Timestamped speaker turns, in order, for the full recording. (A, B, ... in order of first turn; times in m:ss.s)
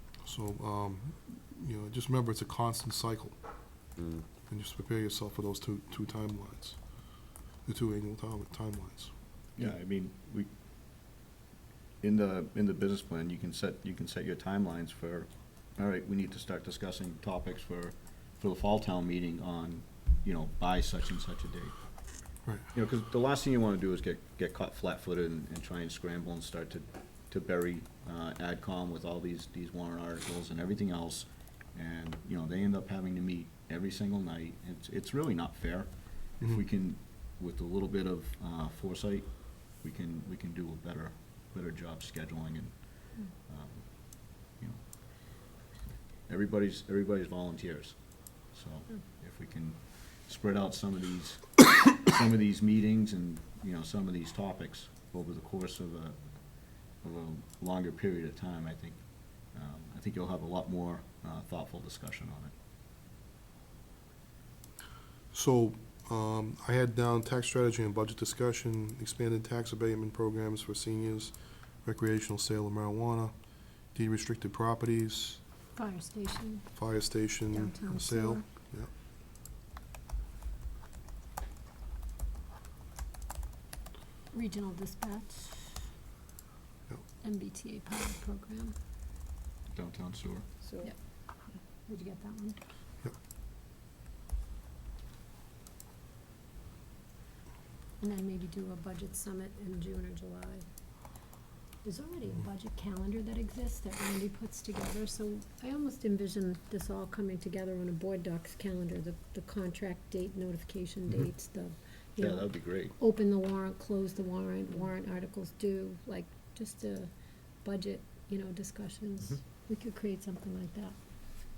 0:00.2-0:03.4 A
0:04.5-0:06.8 A
0:07.6-0:09.1 A
0:09.6-0:10.5 B
0:12.0-0:21.9 B
0:22.4-0:22.7 A
0:22.7-0:45.6 B
0:46.3-1:02.5 B
1:05.3-1:13.3 A
1:13.9-1:15.4 A
1:15.7-1:16.8 C
1:16.7-1:18.9 A
1:17.5-1:18.4 C
1:24.3-1:25.8 C
1:27.2-1:28.8 C
1:29.7-1:30.5 B
1:31.8-1:32.6 C
1:38.0-1:40.6 C
1:41.8-2:01.0 C
1:52.2-1:52.9 B